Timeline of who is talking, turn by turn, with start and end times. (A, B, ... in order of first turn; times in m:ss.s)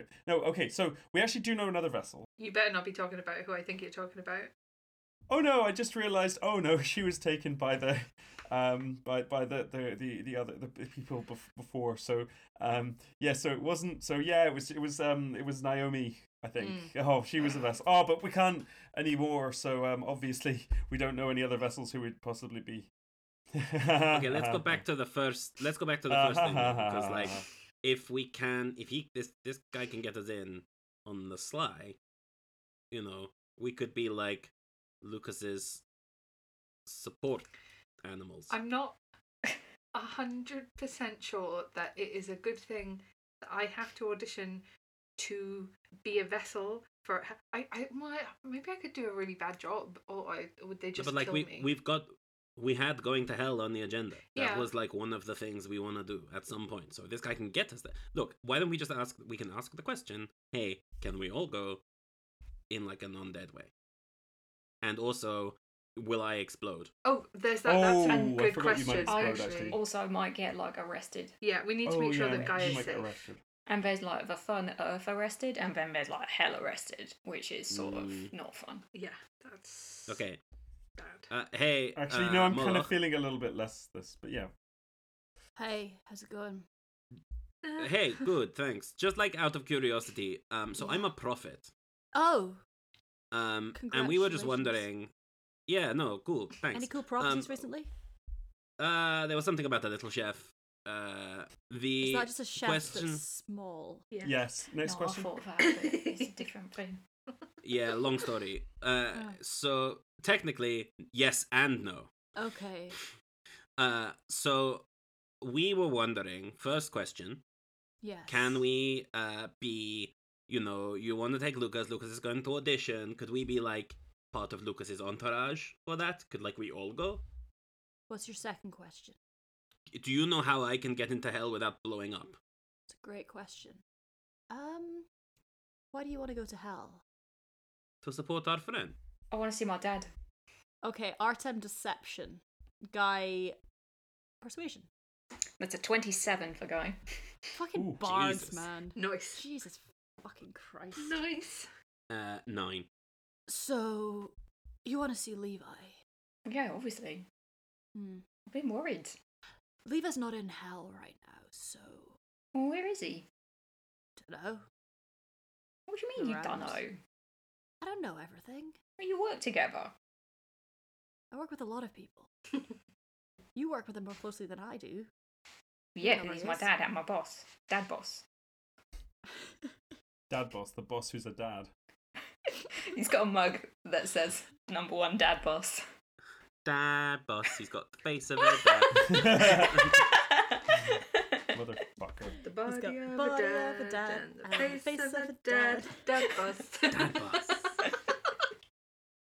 0:00.2-0:02.2 A
0:02.4-0:04.5 B
0:05.3-0:22.9 A
0:16.6-0:16.9 B
0:23.5-0:24.8 A
0:24.1-0:32.0 C
0:26.1-0:27.4 A
0:32.9-0:35.8 C
0:36.8-0:37.4 C
0:38.0-0:38.5 C
0:38.5-0:39.0 B
0:39.9-0:44.6 B
0:45.2-0:51.7 B
0:51.0-1:01.8 C
0:54.3-0:54.7 B
1:02.7-1:03.7 C
1:04.8-1:06.9 C
1:07.0-1:09.8 B
1:07.6-1:09.8 A
1:08.1-1:11.4 D
1:11.4-1:13.2 B
1:11.8-1:13.4 A
1:12.2-1:12.9 D
1:13.7-1:18.8 D
1:17.7-1:18.3 C
1:18.9-1:20.2 B
1:20.1-1:20.4 C
1:21.0-1:21.3 B
1:21.3-1:22.9 C
1:22.0-1:24.5 A
1:25.6-1:26.6 E
1:27.6-1:27.9 B
1:27.8-1:31.7 C
1:32.1-1:32.6 E
1:33.3-1:35.1 C
1:33.7-1:34.8 E
1:35.7-1:37.6 C
1:36.7-1:37.9 E
1:38.8-1:43.2 C
1:42.0-1:44.0 E
1:44.1-1:44.4 B
1:44.2-1:45.3 A
1:44.8-1:47.0 D
1:45.8-1:46.2 B
1:47.6-1:52.1 C
1:52.4-1:53.0 E
1:53.8-1:54.8 C
1:55.4-1:57.4 C
1:58.0-1:58.6 E
1:58.3-2:07.2 C
2:08.1-2:09.2 E
2:09.9-2:12.4 C
2:12.9-2:13.8 E
2:14.5-2:15.1 E
2:15.9-2:17.0 E
2:18.0-2:19.0 C
2:19.3-2:20.1 D
2:20.8-2:23.6 E
2:24.4-2:24.9 E
2:25.6-2:27.0 D
2:27.5-2:31.2 E
2:27.7-2:28.0 A
2:28.0-2:28.6 C
2:28.9-2:29.4 B
2:31.0-2:31.7 B
2:32.1-2:32.9 C
2:33.5-2:34.3 E
2:34.8-2:36.0 E
2:36.4-2:37.2 D
2:37.9-2:38.2 E
2:38.5-2:39.2 D
2:39.8-2:42.2 E
2:42.5-2:43.2 D
2:44.2-2:44.6 E
2:45.9-2:47.0 D
2:46.2-2:46.8 E
2:47.8-2:48.8 E
2:49.0-2:49.9 D
2:51.3-2:52.3 E
2:53.5-2:55.1 E
2:55.9-2:58.2 D
2:56.0-2:56.7 E
3:00.3-3:01.7 A
3:02.8-3:05.8 D
3:06.6-3:10.0 C
3:08.6-3:09.1 D
3:09.1-3:09.9 A
3:09.8-3:11.4 D
3:11.5-3:12.4 A
3:12.4-3:17.9 B
3:12.6-3:16.4 E
3:16.9-3:17.6 C